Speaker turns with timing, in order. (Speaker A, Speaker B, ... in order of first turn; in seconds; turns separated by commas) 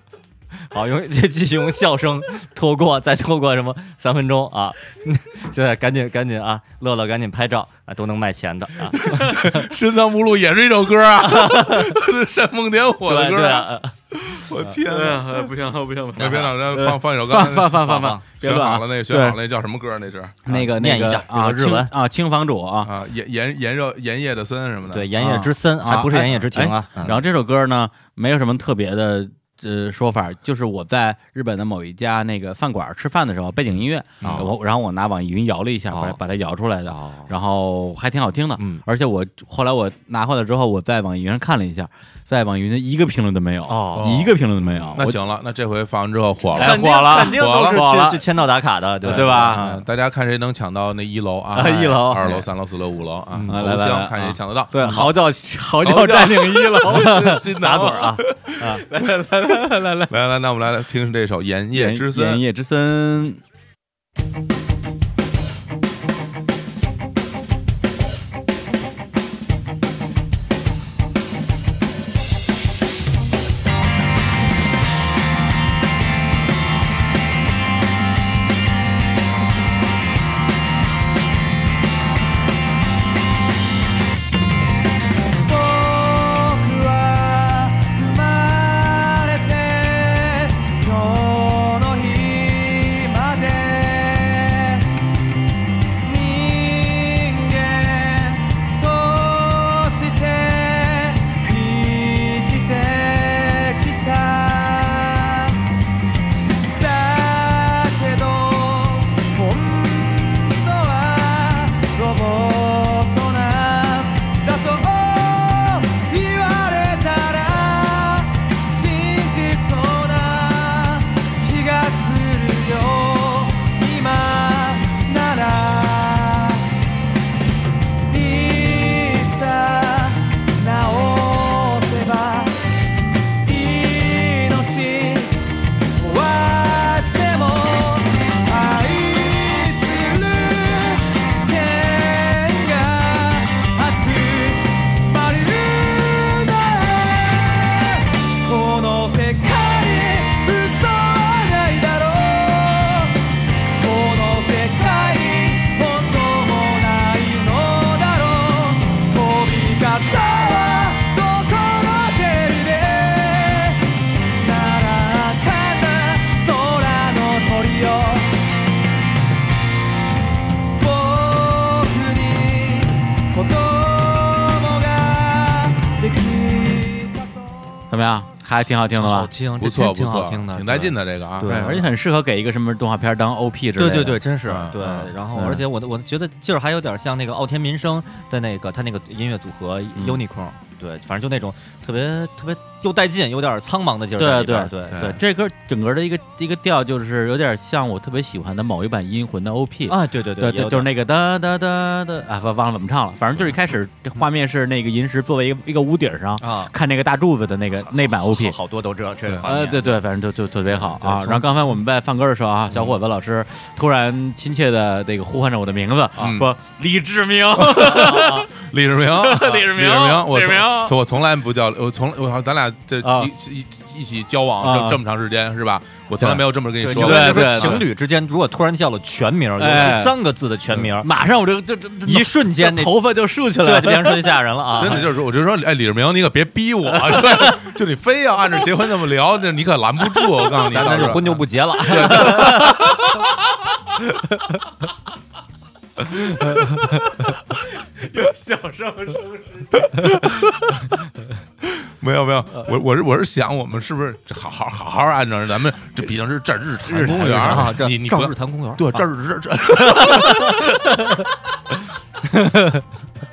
Speaker A: 0.6-9.7, Speaker B: 8.9-15.5, Speaker A: 11.3-12.0, Speaker A: 13.1-13.9, Speaker C: 14.8-19.4, Speaker B: 16.2-20.6, Speaker A: 17.8-18.2, Speaker C: 20.4-22.9, Speaker A: 20.5-21.9, Speaker B: 22.8-25.3, Speaker A: 24.9-27.2, Speaker C: 25.2-45.2, Speaker B: 34.2-34.5, Speaker A: 34.2-34.5, Speaker A: 35.9-36.2, Speaker A: 36.9-37.3, Speaker A: 38.6-38.8, Speaker A: 43.7-44.3, Speaker B: 43.9-44.4, Speaker B: 44.9-47.9, Speaker A: 46.5-49.8, Speaker C: 46.5-48.2, Speaker C: 49.0-49.6, Speaker B: 49.0-55.1, Speaker C: 51.5-52.4, Speaker A: 51.6-52.5, Speaker A: 53.3-53.6, Speaker C: 53.5-57.4, Speaker B: 55.8-62.4, Speaker A: 56.8-58.8, Speaker C: 58.9-60.1, Speaker C: 61.7-63.4, Speaker D: 85.5-95.0, Speaker D: 96.0-105.6, Speaker D: 106.7-126.7, Speaker D: 128.1-132.6, Speaker D: 133.4-168.5, Speaker D: 170.8-177.5, Speaker C: 177.9-179.3, Speaker A: 178.9-181.9, Speaker B: 179.6-181.8, Speaker C: 181.4-184.2, Speaker A: 183.8-195.1, Speaker B: 184.5-185.1, Speaker C: 184.9-185.6, Speaker C: 194.2-208.6, Speaker B: 194.9-195.2, Speaker A: 199.9-200.9, Speaker A: 206.4-206.7, Speaker A: 207.8-210.0, Speaker C: 209.4-218.5, Speaker A: 210.7-211.6, Speaker A: 212.7-213.0, Speaker B: 216.2-216.5, Speaker B: 217.6-227.8, Speaker A: 217.9-218.5, Speaker C: 219.1-221.0, Speaker C: 223.0-223.3, Speaker C: 224.6-225.0, Speaker C: 226.2-227.8, Speaker A: 226.8-231.1, Speaker C: 229.6-230.2, Speaker C: 231.0-234.5, Speaker A: 232.1-233.0, Speaker A: 233.6-235.1, Speaker B: 234.8-243.3, Speaker A: 240.6-242.9, Speaker C: 248.0-249.8, Speaker B: 249.7-250.9, Speaker B: 251.6-260.8, Speaker A: 256.9-259.1, Speaker A: 259.8-261.3, Speaker A: 262.2-262.9